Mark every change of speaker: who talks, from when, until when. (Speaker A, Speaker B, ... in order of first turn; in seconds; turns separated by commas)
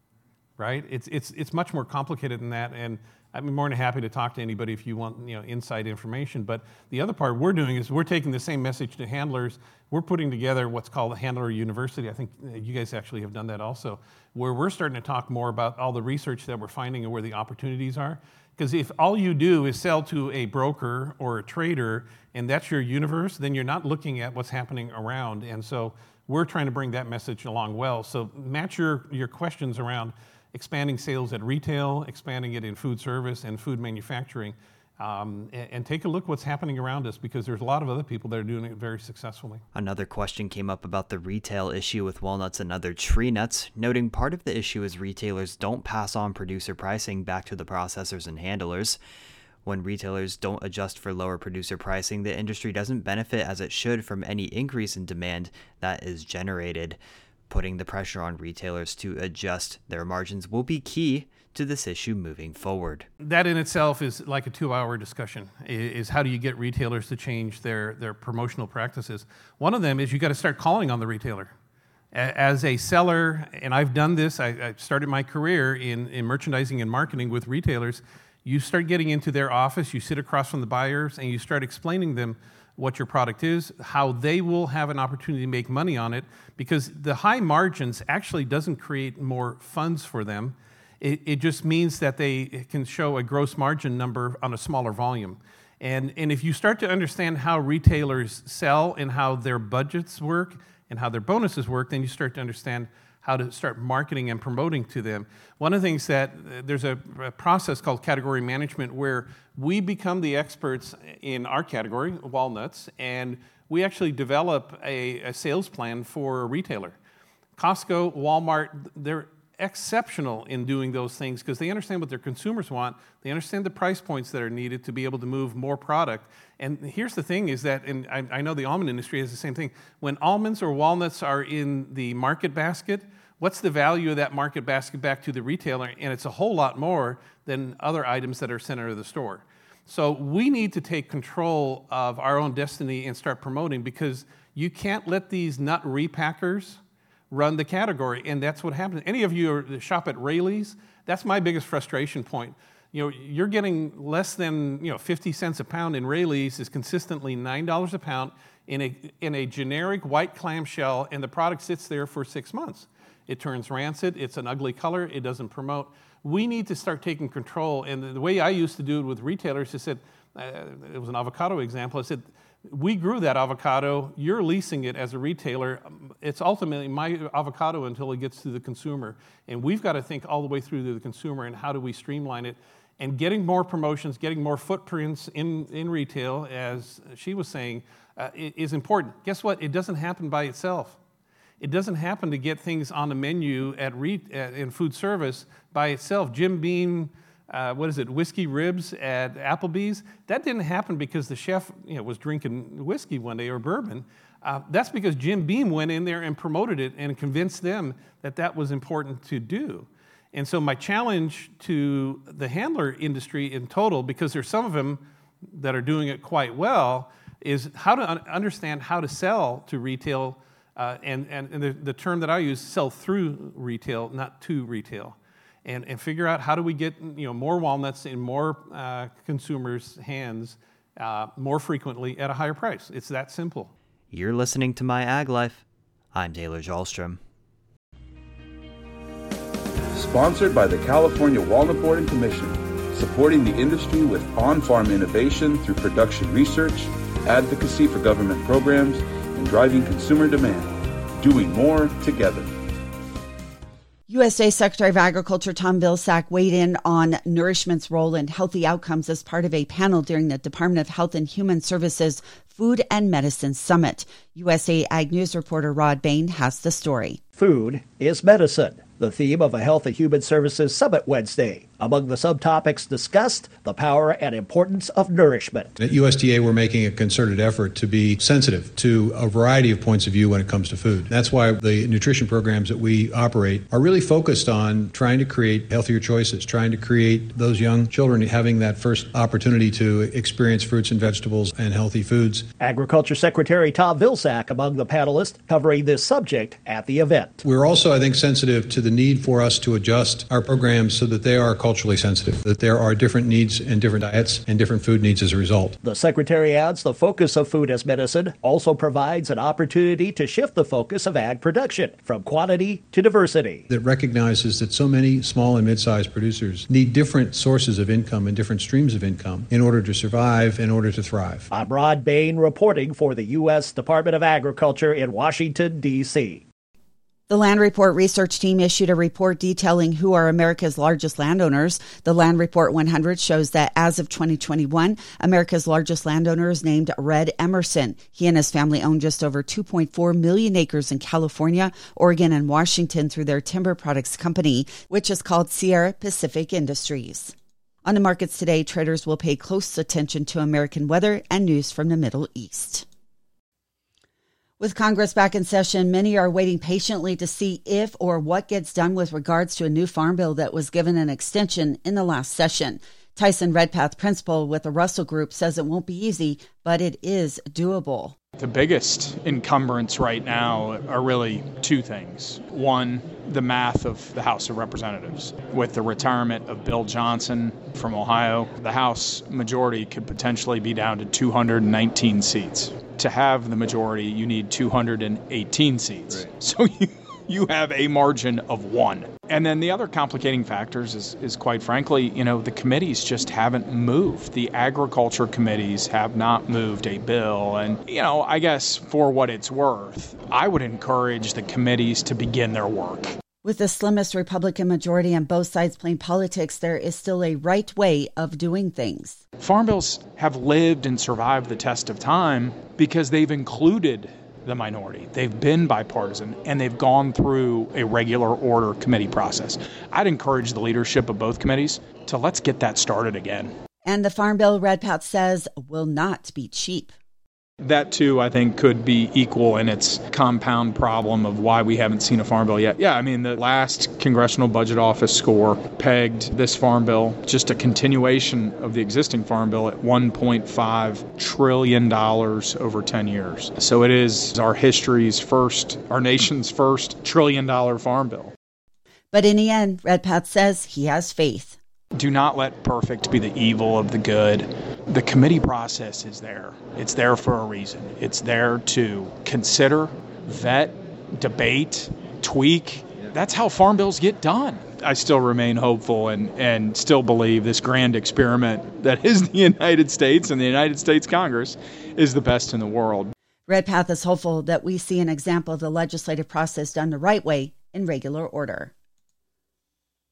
Speaker A: 0.6-39.6, Speaker B: 39.7-49.0, Speaker B: 49.6-57.0, Speaker B: 57.5-63.1, Speaker A: 63.2-71.5, Speaker A: 72.1-117.0, Speaker A: 117.5-146.8, Speaker A: 147.3-191.0, Speaker A: 191.6-233.7, Speaker B: 234.1-237.2, Speaker C: 239.9-252.6, Speaker D: 254.1-267.2, Speaker E: 267.4-275.7, Speaker F: 275.8-292.5, Speaker E: 292.6-297.4, Speaker F: 297.4-305.8, Speaker E: 305.8-313.6, Speaker F: 313.7-321.5, Speaker E: 321.5-326.4, Speaker D: 327.3-352.9, Speaker D: 354.6-368.1, Speaker G: 368.4-403.1, Speaker D: 403.4-409.2, Speaker G: 409.4-423.5, Speaker D: 423.8-426.9, Speaker G: 427.6-448.3, Speaker D: 449.1-451.6, Speaker G: 451.9-473.1, Speaker D: 473.5-478.7